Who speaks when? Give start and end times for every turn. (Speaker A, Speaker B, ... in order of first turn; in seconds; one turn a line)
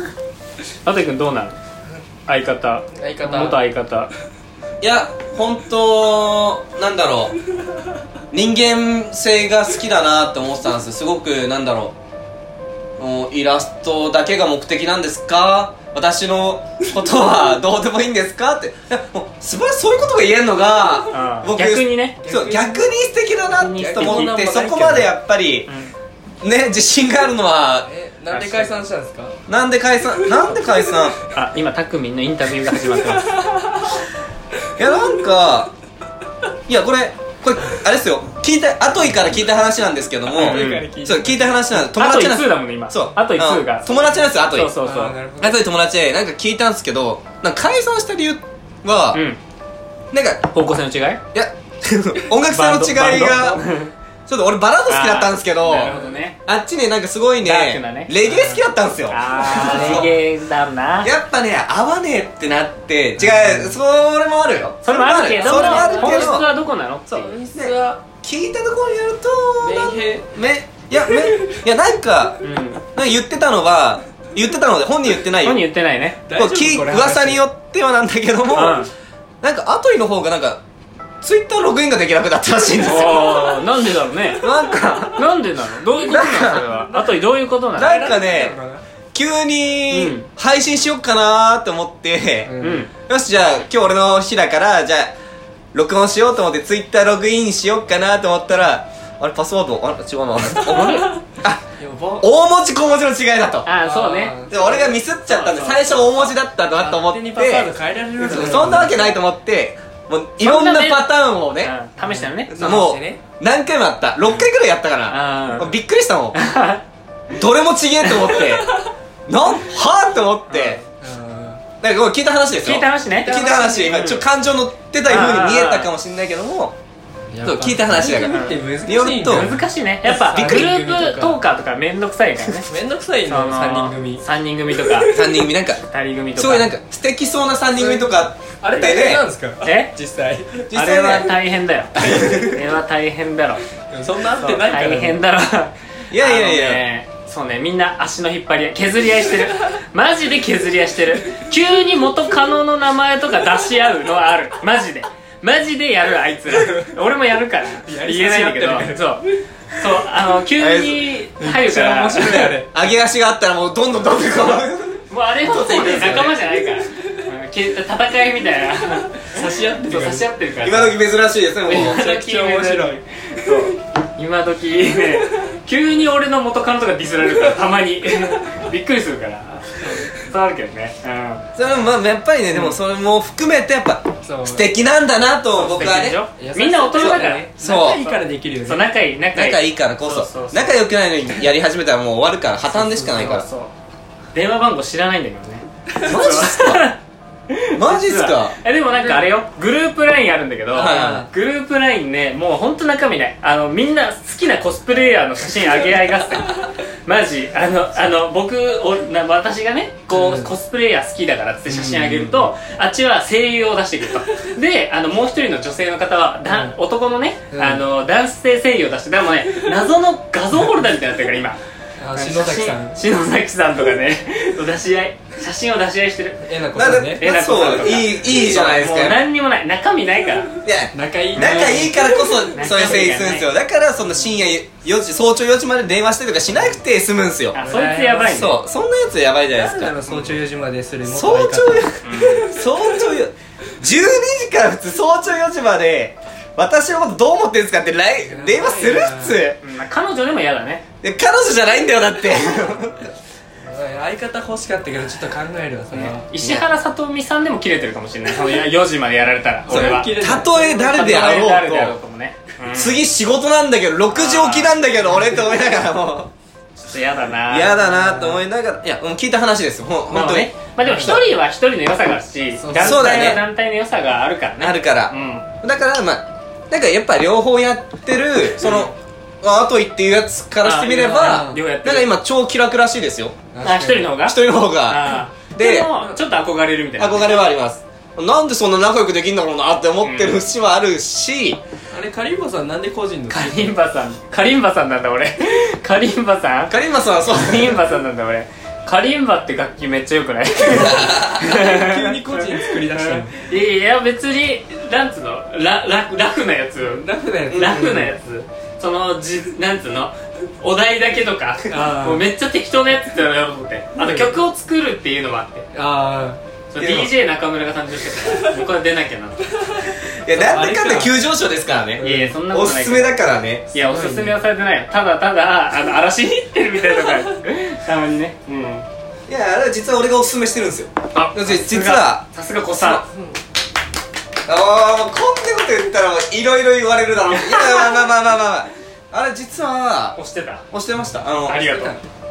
Speaker A: 0.8-1.5
Speaker A: 2.3-4.1
Speaker B: 3.0-3.6
Speaker C: 4.8-7.3
Speaker C: 8.3-11.9
Speaker C: 13.0-25.7
Speaker A: 21.1-22.2
Speaker B: 22.2-22.9
Speaker A: 23.5-24.3
Speaker B: 23.8-25.1
Speaker A: 25.6-25.9
Speaker C: 26.4-27.9
Speaker B: 27.8-29.4
Speaker A: 28.3-28.7
Speaker C: 29.5-31.2
Speaker B: 30.1-30.7
Speaker A: 31.3-33.4
Speaker B: 32.9-34.0
Speaker C: 34.8-35.7
Speaker C: 36.7-44.7
Speaker B: 40.3-41.8
Speaker A: 40.4-40.9
Speaker A: 41.9-43.9
Speaker B: 43.9-44.3
Speaker A: 44.5-45.1
Speaker B: 44.8-45.6
Speaker C: 45.4-49.2
Speaker A: 49.1-49.4
Speaker C: 50.1-50.5
Speaker A: 50.5-51.2
Speaker C: 51.3-53.6
Speaker A: 52.5-53.9
Speaker C: 54.3-60.1
Speaker A: 54.9-56.4
Speaker B: 55.8-56.2
Speaker A: 57.4-61.1
Speaker B: 59.4-60.1
Speaker C: 61.0-66.5
Speaker B: 63.2-63.8
Speaker A: 64.8-67.3
Speaker B: 65.3-66.4
Speaker B: 67.1-68.0
Speaker C: 67.5-72.4
Speaker B: 69.6-70.2
Speaker B: 71.1-71.6
Speaker A: 72.4-72.8
Speaker C: 72.9-75.6
Speaker A: 75.4-76.2
Speaker B: 76.2-77.4
Speaker C: 76.3-78.9
Speaker A: 78.5-78.9
Speaker C: 79.4-80.6
Speaker C: 81.2-83.6
Speaker A: 82.8-84.5
Speaker C: 84.4-85.3
Speaker A: 85.0-88.1
Speaker B: 86.0-87.2
Speaker C: 86.1-86.6
Speaker C: 87.8-88.6
Speaker B: 87.8-88.8
Speaker C: 89.1-92.5
Speaker A: 89.9-90.3
Speaker B: 92.4-92.9
Speaker A: 92.6-92.9
Speaker C: 93.0-95.1
Speaker C: 95.7-101.6
Speaker A: 100.6-101.2
Speaker B: 100.9-101.2
Speaker B: 101.8-102.2
Speaker C: 102.2-103.7
Speaker A: 103.6-104.4
Speaker B: 103.8-105.0
Speaker C: 104.5-111.7
Speaker A: 105.2-106.3
Speaker B: 106.7-109.1
Speaker A: 108.3-108.7
Speaker A: 110.4-112.9
Speaker B: 112.0-113.2
Speaker C: 112.5-116.3
Speaker A: 115.1-115.8
Speaker A: 116.3-116.8
Speaker C: 117.3-118.7
Speaker A: 118.0-118.5
Speaker C: 119.3-120.8
Speaker A: 120.5-120.8
Speaker B: 121.0-121.6
Speaker C: 121.8-126.7
Speaker A: 122.5-124.2
Speaker B: 123.3-123.9
Speaker A: 125.0-125.9
Speaker B: 127.3-131.4
Speaker C: 127.4-129.5
Speaker A: 128.2-128.6
Speaker A: 129.2-132.7
Speaker C: 130.3-130.7
Speaker B: 132.7-135.4
Speaker A: 133.3-135.1
Speaker C: 135.1-135.8
Speaker A: 135.9-136.7
Speaker C: 136.3-139.2
Speaker B: 137.7-140.6
Speaker A: 138.7-139.0
Speaker A: 139.6-139.9
Speaker C: 140.7-141.3
Speaker A: 140.7-143.6
Speaker C: 141.9-142.6
Speaker B: 142.0-142.4
Speaker B: 143.9-145.2
Speaker A: 144.3-162.3
Speaker C: 146.1-146.8
Speaker B: 156.5-156.9
Speaker B: 157.8-159.3
Speaker C: 160.6-161.1
Speaker B: 161.4-162.7
Speaker C: 162.1-166.4
Speaker A: 164.3-171.0
Speaker B: 166.2-166.9
Speaker B: 169.2-170.2
Speaker C: 170.6-172.0
Speaker A: 171.7-181.4
Speaker B: 171.7-173.7
Speaker B: 179.8-180.2
Speaker C: 181.6-186.2
Speaker B: 184.2-184.6
Speaker A: 185.5-190.8
Speaker B: 186.4-188.8
Speaker C: 187.0-188.0
Speaker C: 189.3-193.5
Speaker A: 192.7-193.7
Speaker B: 193.1-193.4
Speaker A: 194.3-197.0
Speaker C: 196.0-196.9
Speaker A: 197.5-221.6
Speaker C: 197.7-198.6
Speaker B: 198.9-199.2
Speaker C: 200.7-201.2
Speaker B: 200.8-201.3
Speaker B: 210.1-210.5
Speaker B: 211.7-212.4
Speaker B: 216.5-216.7
Speaker B: 217.5-217.8
Speaker B: 222.0-223.0
Speaker A: 222.1-226.4
Speaker B: 226.4-227.3
Speaker C: 226.7-229.2
Speaker A: 227.2-230.5
Speaker C: 230.6-237.6
Speaker B: 230.9-232.5
Speaker A: 231.3-231.9
Speaker A: 232.5-233.5
Speaker A: 237.5-238.6
Speaker B: 237.6-238.5
Speaker C: 238.3-240.4
Speaker B: 239.5-242.6
Speaker C: 241.1-249.6
Speaker A: 242.0-242.5
Speaker B: 248.2-249.4
Speaker A: 249.6-250.8
Speaker C: 251.0-253.1
Speaker B: 253.6-256.2
Speaker A: 255.9-260.1
Speaker B: 259.6-261.2
Speaker C: 259.7-261.9
Speaker A: 260.8-263.0
Speaker C: 262.7-266.3
Speaker A: 264.1-264.8
Speaker B: 265.0-265.5
Speaker A: 266.8-267.9
Speaker C: 267.5-271.2
Speaker B: 267.8-268.4
Speaker A: 270.1-275.5
Speaker B: 270.9-271.2
Speaker B: 272.6-273.1
Speaker C: 272.8-273.4
Speaker C: 274.6-283.3
Speaker A: 278.6-278.9
Speaker A: 280.6-282.1
Speaker B: 281.1-281.6
Speaker B: 283.5-284.1
Speaker A: 283.6-287.3
Speaker C: 284.2-285.9
Speaker B: 286.0-286.2
Speaker C: 287.0-291.6
Speaker A: 290.0-290.4
Speaker B: 291.9-293.7
Speaker A: 293.3-296.7
Speaker C: 296.7-297.8
Speaker A: 297.3-315.6
Speaker C: 300.6-301.5
Speaker B: 301.4-303.3
Speaker B: 306.8-307.9
Speaker C: 307.5-308.1
Speaker B: 311.7-312.2
Speaker B: 314.0-314.3
Speaker B: 315.7-316.4
Speaker A: 316.7-319.4
Speaker C: 316.8-317.1
Speaker C: 320.2-323.7
Speaker B: 320.3-321.1
Speaker B: 322.0-322.3
Speaker A: 322.0-323.1
Speaker A: 323.7-328.8
Speaker B: 323.7-324.4
Speaker C: 329.3-333.0
Speaker A: 331.1-333.0
Speaker C: 334.4-340.2
Speaker A: 337.2-338.1
Speaker A: 340.1-340.6
Speaker C: 340.7-341.6
Speaker A: 341.5-342.0
Speaker B: 341.5-342.0